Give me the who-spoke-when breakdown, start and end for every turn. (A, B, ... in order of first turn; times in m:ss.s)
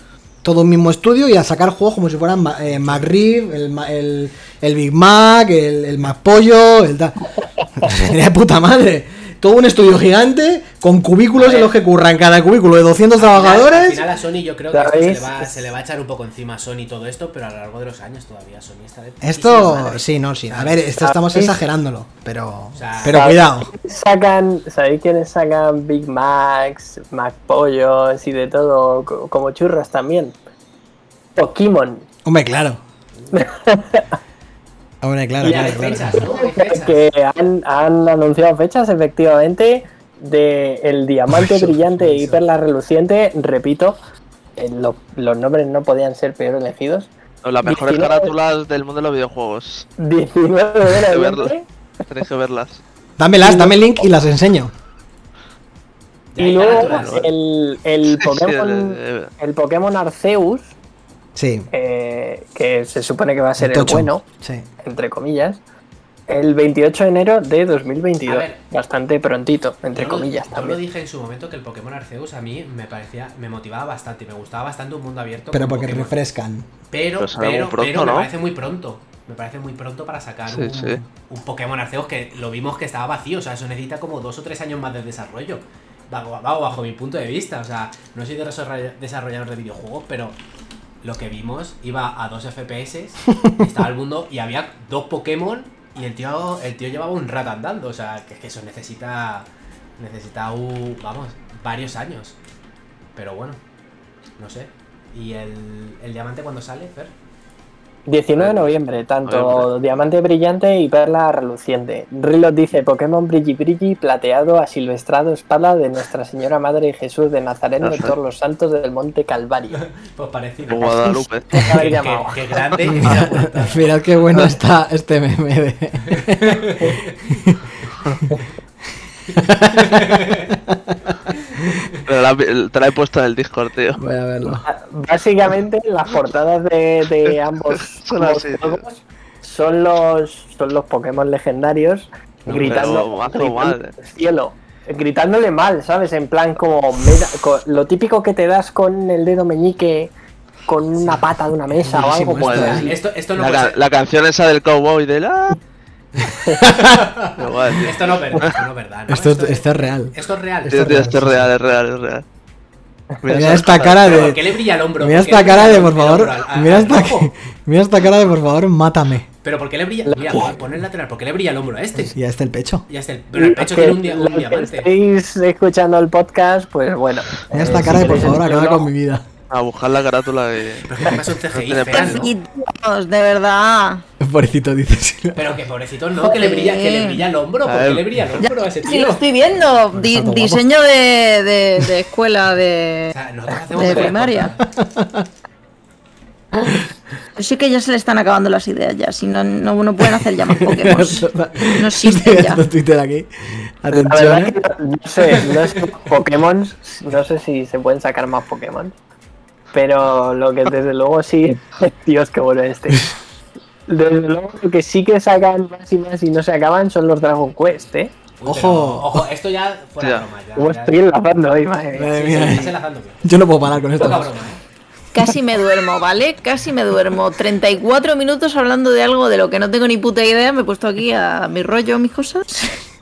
0:00.4-0:14.0 A
0:02.7-0:03.1 B
0:11.4-0:11.7 B
0:13.2-0:20.8 B
0:14.7-0:15.5 C
0:19.2-0:23.7 A
0:21.0-0:21.6 C
0:22.7-0:23.3 B
0:23.0-0:30.4 C
0:31.4-0:32.1 C
0:32.2-0:32.8 A
0:33.3-0:34.1 C
0:35.0-0:36.3 A
0:35.4-0:37.0 B
0:35.5-0:44.0 C
0:41.3-0:41.8 A
0:42.0-0:42.4 B
0:44.6-0:47.1 C
0:47.4-0:49.9 D
0:47.6-0:48.3 C
0:50.0-0:51.7 C
0:50.9-0:51.5 D
0:52.1-0:52.8 D
0:53.2-0:54.7 A
0:53.4-0:53.9 C
0:56.3-0:57.3 B
0:56.4-1:00.7 C
0:56.8-0:57.3 D
0:58.0-0:59.3 D
1:01.4-1:01.7 A
1:01.7-1:04.2 C
1:03.6-1:04.7 A
1:04.8-1:05.6 C
1:06.3-1:10.8 C
1:08.3-1:08.6 B
1:10.0-1:16.2 B
1:15.5-1:16.7 A
1:16.9-1:30.4 B
1:17.2-1:18.3 D
1:20.5-1:21.0 D
1:31.0-1:42.4 B
1:43.2-1:43.6 B
1:44.4-1:47.1 B
1:48.1-1:59.8 C
1:48.4-1:48.7 D
1:49.3-1:49.7 D
1:57.8-1:58.2 D
1:59.7-2:04.0 B
2:00.7-2:01.9 D
2:01.5-2:03.1 C
2:02.9-2:06.9 A
2:06.1-2:07.4 B
2:09.4-2:10.5 B
2:09.4-2:11.8 A
2:12.1-2:14.0 D
2:14.0-2:14.7 A
2:14.6-2:30.1 C
2:18.0-2:18.8 D
2:22.5-2:22.9 B
2:22.5-2:23.9 D
2:30.7-2:32.9 C
2:31.8-2:33.0 A
2:32.0-2:33.8 B
2:32.4-2:35.6 D
2:36.6-2:37.2 A
2:36.6-2:41.5 B
2:37.4-2:38.6 D
2:39.1-2:41.4 A
2:40.7-2:42.2 D
2:43.2-2:44.3 D
2:43.3-2:49.3 A
2:43.3-2:47.3 B
2:49.4-2:52.1 B
2:50.0-2:50.5 C
2:52.0-2:52.9 A
2:52.9-2:54.9 B
2:53.4-2:58.9 C
2:57.5-2:59.3 A
2:57.9-2:58.2 B
2:59.5-3:02.3 D
3:00.8-3:02.3 B
3:01.9-3:04.0 E
3:04.2-3:05.6 A
3:05.4-3:09.2 B
3:06.2-3:07.2 E
3:07.7-3:08.1 D
3:08.4-3:13.2 E
3:10.0-3:10.6 A
3:13.1-3:14.6 B
3:13.7-3:14.6 E
3:14.8-3:15.3 A
3:17.4-3:22.6 E
3:20.0-3:24.6 A
3:23.9-3:29.0 C
3:29.7-3:33.1 C
3:33.9-3:38.1 C
3:38.4-3:41.0 B
3:38.4-3:39.2 A
3:40.6-3:42.7 C
3:42.0-3:44.3 A
3:42.0-3:43.2 B
3:44.0-3:44.6 B
3:45.1-3:52.8 E